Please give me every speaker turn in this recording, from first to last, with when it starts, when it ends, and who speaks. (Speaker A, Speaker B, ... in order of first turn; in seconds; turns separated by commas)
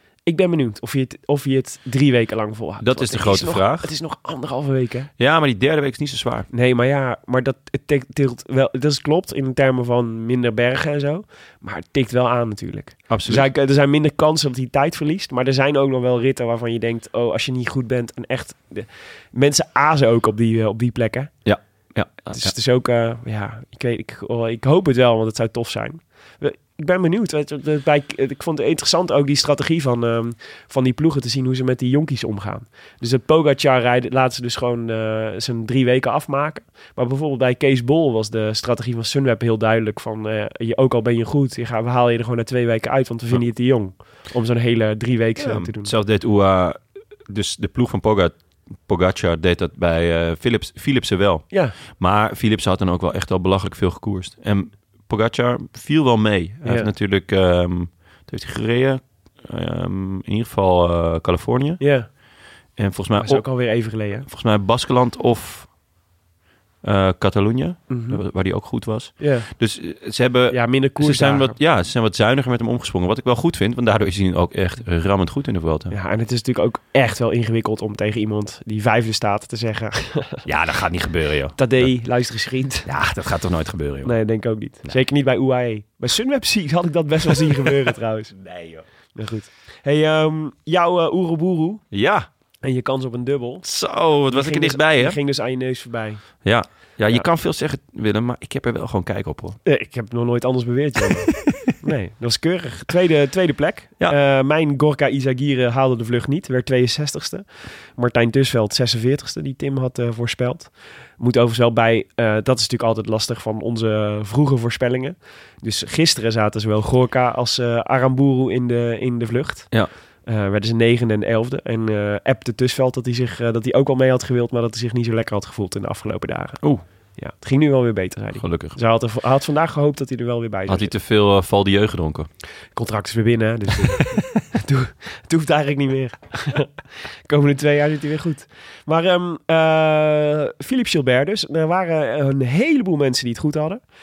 Speaker A: 0.2-5.1, Speaker B: 2.8-3.9, Speaker B: 5.2-6.5, Speaker A: 6.5-21.4, Speaker B: 13.1-13.5, Speaker B: 21.4-22.5, Speaker A: 22.3-45.9, Speaker B: 45.4-61.9, Speaker A: 56.6-56.9, Speaker A: 61.8-62.1, Speaker B: 62.8-65.7, Speaker A: 63.2-64.3, Speaker B: 66.8-76.0, Speaker A: 67.9-68.2, Speaker A: 69.2-69.5, Speaker A: 70.5-71.6, Speaker A: 75.9-80.5, Speaker B: 80.5-81.9, Speaker A: 81.6-82.9, Speaker B: 82.9-84.2, Speaker A: 84.0-88.3, Speaker B: 88.4-88.8, Speaker A: 89.2-91.8, Speaker B: 91.9-92.3, Speaker A: 92.6-93.7, Speaker B: 93.6-95.2, Speaker A: 94.3-96.2, Speaker B: 96.4-99.6, Speaker A: 99.7-107.5, Speaker A: 108.0-126.6, Speaker A: 127.2-130.9, Speaker B: 128.4-128.8, Speaker B: 130.7-132.3, Speaker A: 132.8-136.7, Speaker A: 137.3-143.8